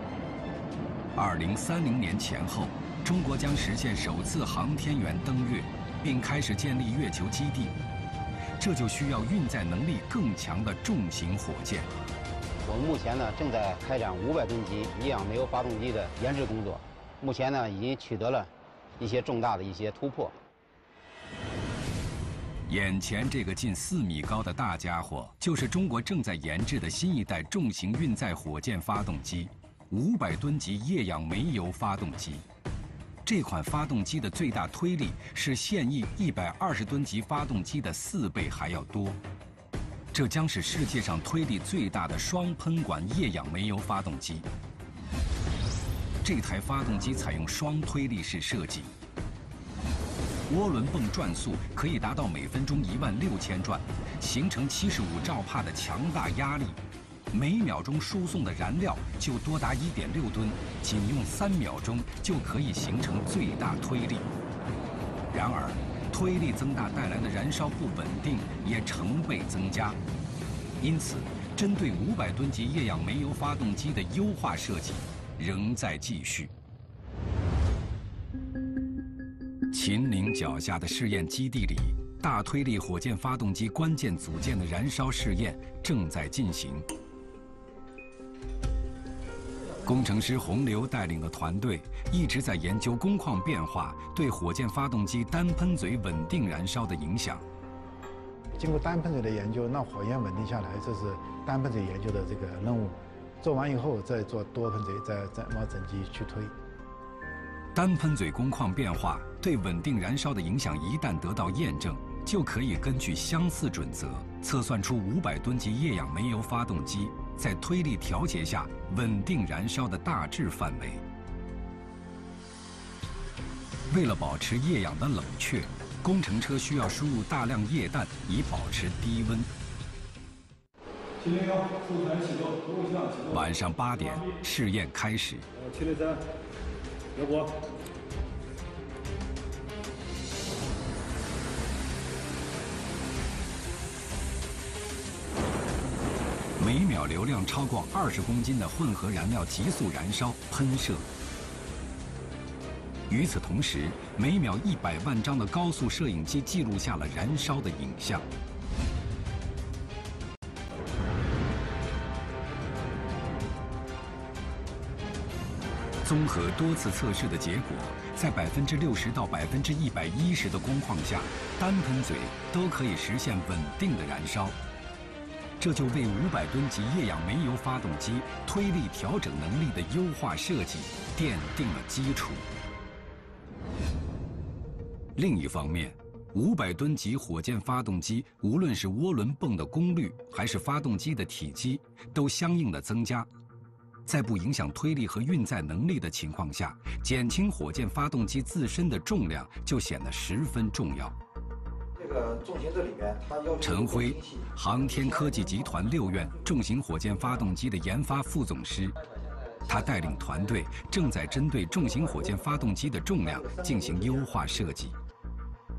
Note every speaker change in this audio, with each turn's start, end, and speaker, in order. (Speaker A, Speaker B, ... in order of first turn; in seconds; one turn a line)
Speaker A: 1.1-7.7
Speaker A: 8.6-11.9
Speaker B: 12.6-20.4
Speaker A: 22.7-32.4
Speaker A: 33.2-39.2
Speaker A: 40.1-44.5
Speaker A: 46.2-48.9
Speaker A: 50.5-56.8
Speaker A: 57.3-64.3
Speaker A: 65.3-70.0
Speaker A: 70.8-76.5
Speaker A: 79.7-86.8
Speaker A: 89.8-97.5
Speaker C: 98.6-106.5
Speaker A: 107.7-121.0
Speaker A: 123.9-129.5
Speaker D: 131.2-134.3
Speaker A: 133.3-135.4
Speaker D: 135.5-136.2
Speaker D: 137.1-137.5
Speaker A: 146.6-151.1
Speaker A: 153.1-158.2
Speaker A: 166.0-174.6
Speaker A: 175.6-182.4
Speaker A: 185.2-193.3
Speaker A: 194.1-201.2
Speaker E: 201.9-205.6
Speaker A: 203.6-208.9
Speaker A: 209.7-214.9
Speaker E: 213.4-214.2